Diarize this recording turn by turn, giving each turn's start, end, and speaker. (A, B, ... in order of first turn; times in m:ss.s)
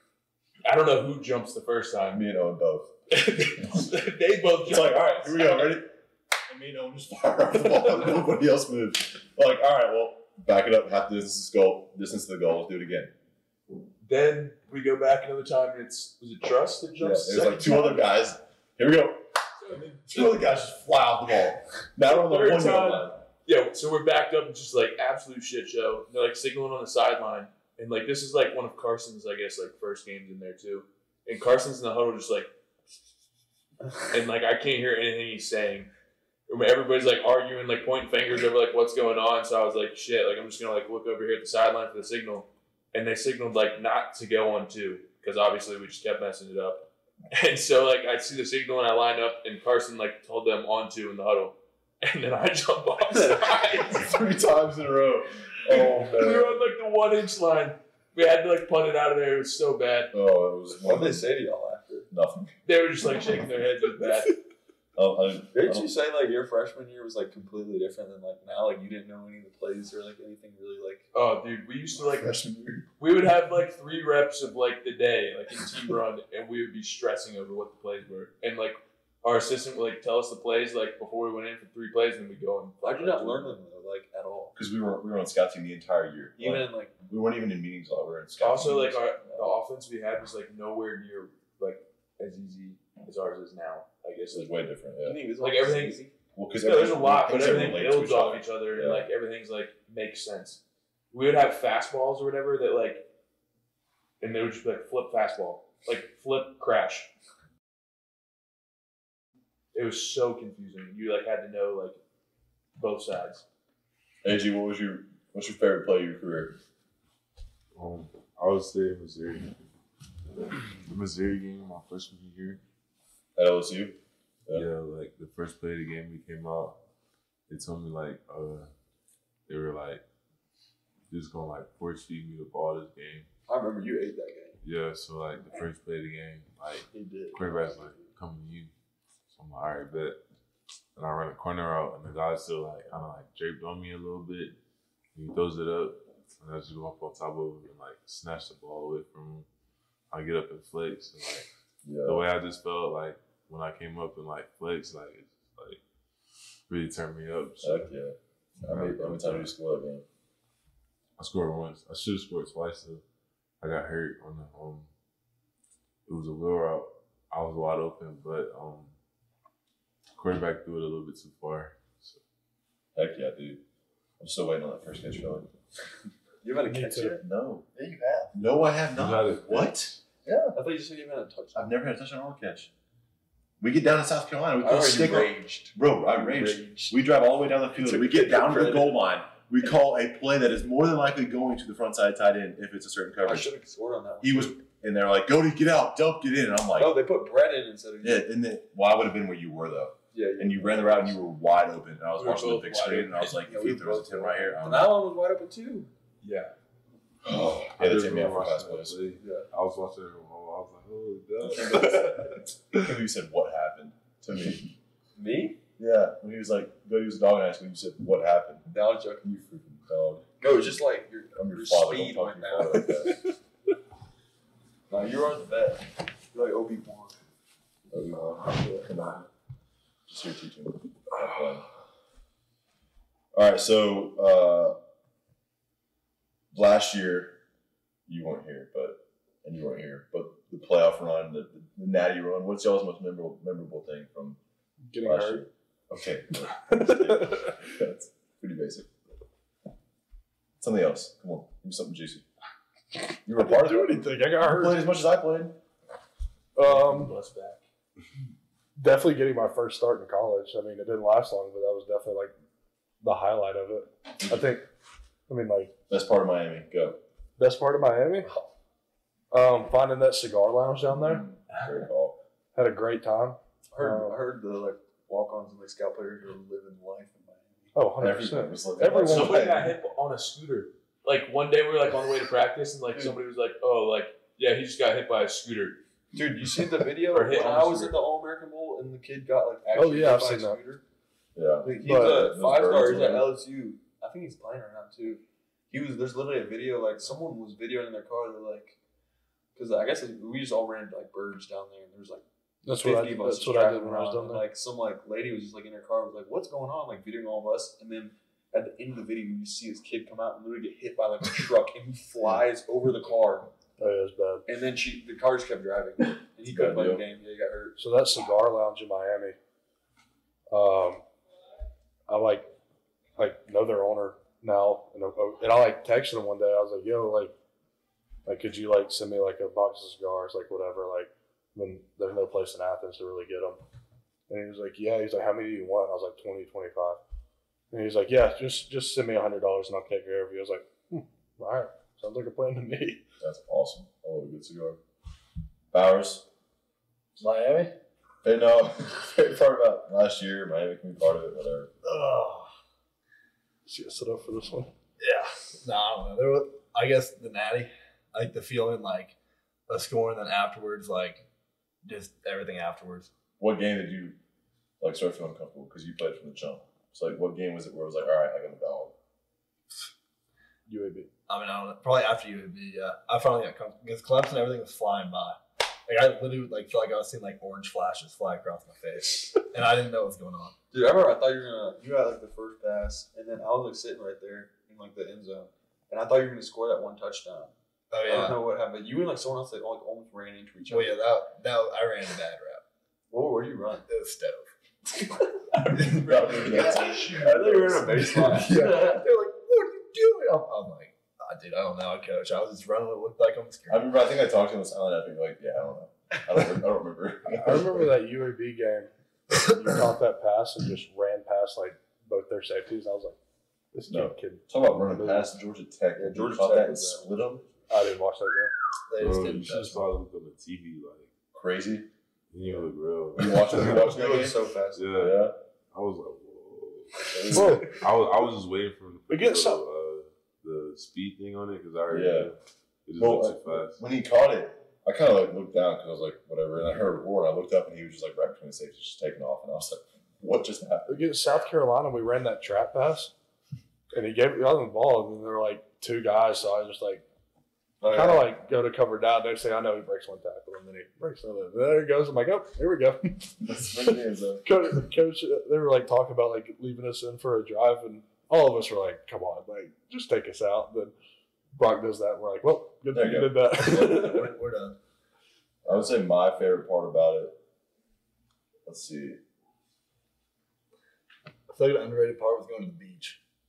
0:00.6-0:02.3 A
0:02.1-0:02.9 B
0:03.1-0:05.8 A
0:04.6-0:05.9 B
0:06.5-0:13.1 B
0:14.0-0:18.1 A
0:17.0-0:19.3 B
0:19.6-0:20.5 A
0:20.1-0:23.2 B
0:22.0-0:32.5 A
0:34.1-0:35.9 A
0:36.5-0:54.0 A
0:53.1-0:53.5 C
0:53.9-0:56.7 B
0:55.7-1:00.1 A
1:00.1-1:01.3 B
1:00.8-1:02.1 C
1:02.1-1:02.5 B
1:02.6-1:04.4 A
1:05.0-1:05.9 B
1:05.5-1:11.1 C
1:11.1-1:12.4 A
1:13.0-1:23.6 A
1:22.8-1:24.6 C
1:24.6-1:29.0 B
1:26.4-1:26.9 C
1:28.4-1:34.6 A
1:29.2-1:29.6 C
1:34.3-1:35.2 B
1:35.0-1:36.1 C
1:35.4-1:36.0 A
1:36.4-1:39.1 B
1:36.6-1:43.1 A
1:44.2-1:47.1 A
1:49.7-1:52.0 A
1:52.8-1:53.4 A
1:54.2-1:56.6 B
1:57.8-1:59.6 D
2:00.6-2:02.6 D
2:03.4-2:04.7 B
2:04.5-2:06.8 D
2:07.5-2:08.7 D
2:09.5-2:10.0 D
2:11.1-2:13.3 D
2:13.5-2:14.6 C
2:14.6-2:18.7 D
2:16.9-2:18.1 C
2:19.3-2:20.2 D
2:21.0-2:24.6 D
2:25.2-2:29.5 D
2:30.1-2:31.5 D
2:31.8-2:32.2 B
2:32.0-2:35.8 D
2:36.7-2:37.9 D
2:37.6-2:40.0 B
2:38.6-2:39.5 D
2:41.2-2:43.0 D
2:43.6-2:44.9 D
2:46.1-2:48.9 D
2:50.2-2:52.2 D
2:53.0-2:53.6 B
2:54.2-2:55.5 B
2:56.4-2:57.2 C
2:56.7-2:57.2 E
2:57.2-2:57.7 B
2:57.8-2:58.3 F
2:58.3-2:59.9 B
2:58.9-2:59.9 D
3:00.2-3:00.6 F
3:00.5-3:01.7 C
3:01.6-3:02.7 B
3:03.6-3:13.5 B
3:04.6-3:07.0 C
3:07.8-3:09.0 C
3:13.2-3:14.6 C
3:14.2-3:17.0 B
3:16.8-3:18.3 C
3:18.0-3:25.0 B
3:20.1-3:21.2 C
3:22.2-3:23.3 A
3:23.4-3:25.9 C
3:26.2-3:26.5 A
3:27.2-3:29.0 B
3:27.8-3:32.1 D
3:29.2-3:29.5 C
3:31.4-3:34.7 B
3:35.2-3:35.6 C
3:35.8-3:38.7 B
3:38.7-3:39.3 C
3:39.2-3:40.3 B
3:40.4-3:43.2 C
3:41.4-3:43.2 B
3:44.9-3:47.2 C
3:47.9-3:49.3 B
3:50.1-3:51.6 B
3:53.3-3:54.8 B
3:56.5-3:57.4 B
3:58.1-4:04.4 B
4:04.9-4:05.4 E
4:05.0-4:08.9 B
4:10.6-4:12.2 B
4:13.2-4:15.6 B
4:13.4-4:14.9 E
4:16.6-4:17.2 E
4:16.6-4:17.6 A
4:18.8-4:22.3 E
4:23.0-4:24.7 E
4:24.2-4:24.5 B
4:25.3-4:25.7 E
4:25.9-4:27.0 B
4:27.4-4:28.3 E
4:29.3-4:31.2 E
4:30.9-4:32.2 B
4:32.6-4:34.2 E
4:33.7-4:37.7 C
4:37.7-4:39.5 E
4:38.0-4:39.7 B
4:39.0-4:45.8 A
4:42.9-4:43.2 C
4:46.1-4:50.8 C
4:47.1-4:48.0 A
4:49.8-4:50.6 E
4:51.4-4:53.3 B
4:51.6-4:58.8 C
4:51.8-4:52.3 E
4:59.6-5:13.5 C
5:02.6-5:04.4 E
5:13.8-5:14.5 E
5:14.5-5:17.8 C
5:16.5-5:17.0 B
5:17.8-5:19.4 E
5:20.5-5:21.0 E
5:22.1-5:22.5 E
5:23.2-5:27.3 E
5:28.3-5:33.6 E
5:34.3-5:37.0 E
5:37.7-5:43.0 E
5:43.2-5:44.8 B
5:45.7-5:46.3 B
5:47.2-5:47.8 F
5:48.2-5:51.7 B
5:51.8-5:52.5 F
5:53.7-5:54.7 E
5:55.0-5:59.2 F
5:59.7-6:01.2 F
6:01.8-6:03.1 F
6:03.4-6:04.2 B
6:04.8-6:08.9 B
6:10.7-6:11.1 E
6:11.3-6:20.5 F
6:20.7-6:27.5 C
6:27.9-6:28.4 F
6:28.0-6:31.0 C
6:30.7-6:32.6 F
6:33.1-6:33.9 C
6:33.9-6:34.5 F
6:35.4-6:37.1 A
6:35.8-6:38.1 B
6:36.5-6:39.0 C
6:36.5-6:37.2 F
6:38.0-6:43.9 F
6:43.7-6:47.9 B
6:47.3-6:53.2 E
6:53.7-6:55.3 E
6:53.9-6:57.4 B
6:56.0-6:57.6 C
6:57.7-6:58.5 E
6:58.9-6:59.9 F
6:59.0-7:01.1 D
7:01.3-7:01.9 B
7:02.3-7:03.7 D
7:03.2-7:04.4 B
7:03.5-7:04.9 C
7:04.7-7:13.8 D
7:05.0-7:05.4 B
7:07.1-7:07.8 B
7:07.3-7:07.7 E
7:09.1-7:09.6 E
7:11.9-7:12.3 B
7:13.0-7:21.1 B
7:20.9-7:23.1 E
7:23.9-7:27.0 E
7:27.8-7:28.4 C
7:27.9-7:33.5 E
7:33.4-7:34.5 B
7:34.4-7:40.9 E
7:41.6-7:44.3 E
7:42.9-7:44.1 B
7:43.6-7:44.8 F
7:45.6-7:47.4 B
7:48.7-7:49.2 B
7:51.5-7:53.2 F